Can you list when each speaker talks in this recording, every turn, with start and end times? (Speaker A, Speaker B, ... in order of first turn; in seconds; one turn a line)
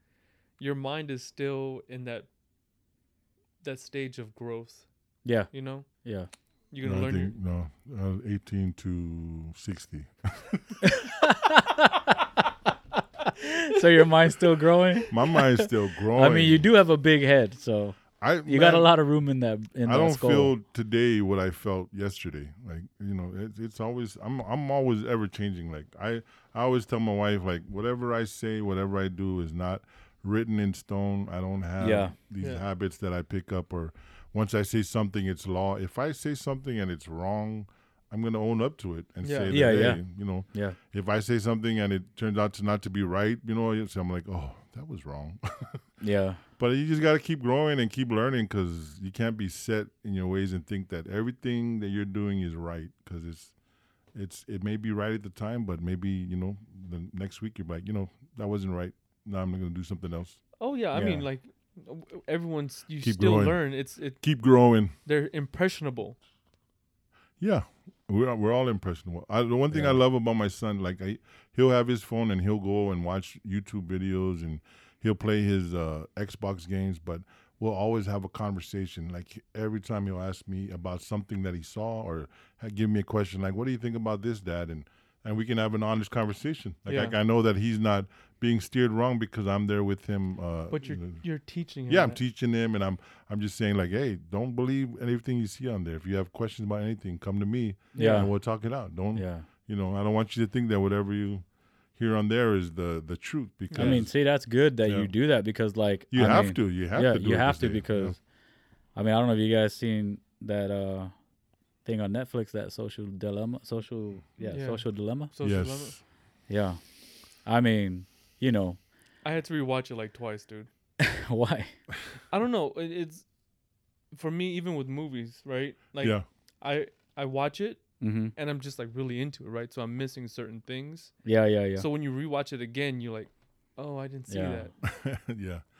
Speaker A: 0.6-2.3
Speaker A: 3.6-4.9
Speaker B: 5.2-6.3
Speaker A: 5.5-5.9
Speaker A: 6.7-7.3
Speaker C: 6.8-10.8
Speaker B: 10.8-12.2
Speaker B: 13.3-20.5
Speaker C: 15.1-16.7
Speaker C: 18.2-18.9
Speaker C: 19.8-45.8
Speaker B: 31.8-32.1
Speaker A: 39.2-39.7
Speaker B: 39.5-40.8
Speaker B: 46.0-46.4
Speaker C: 46.6-53.5
Speaker C: 54.1-60.4
Speaker A: 60.6-66.2
Speaker C: 61.0-61.2
Speaker C: 63.0-64.9
Speaker C: 67.4-91.2
Speaker B: 69.7-70.0
Speaker A: 86.9-87.1
Speaker A: 90.7-92.2
Speaker C: 91.9-101.4
Speaker A: 98.0-98.2
Speaker B: 98.0-98.3
Speaker B: 99.1-99.5
Speaker C: 102.0-104.2
Speaker A: 103.7-104.0
Speaker B: 103.7-108.2
Speaker C: 104.8-105.1
Speaker C: 106.1-108.2
Speaker B: 108.9-111.1
Speaker B: 111.8-115.3
Speaker A: 114.4-116.0
Speaker C: 115.4-116.0
Speaker B: 116.5-116.8
Speaker B: 117.4-118.8
Speaker A: 119.2-120.7
Speaker B: 121.0-121.8
Speaker A: 122.3-123.2
Speaker A: 124.1-131.1
Speaker C: 126.0-126.2
Speaker B: 128.0-128.3
Speaker B: 131.2-131.8
Speaker A: 131.8-134.7
Speaker B: 134.3-134.7
Speaker C: 134.8-135.7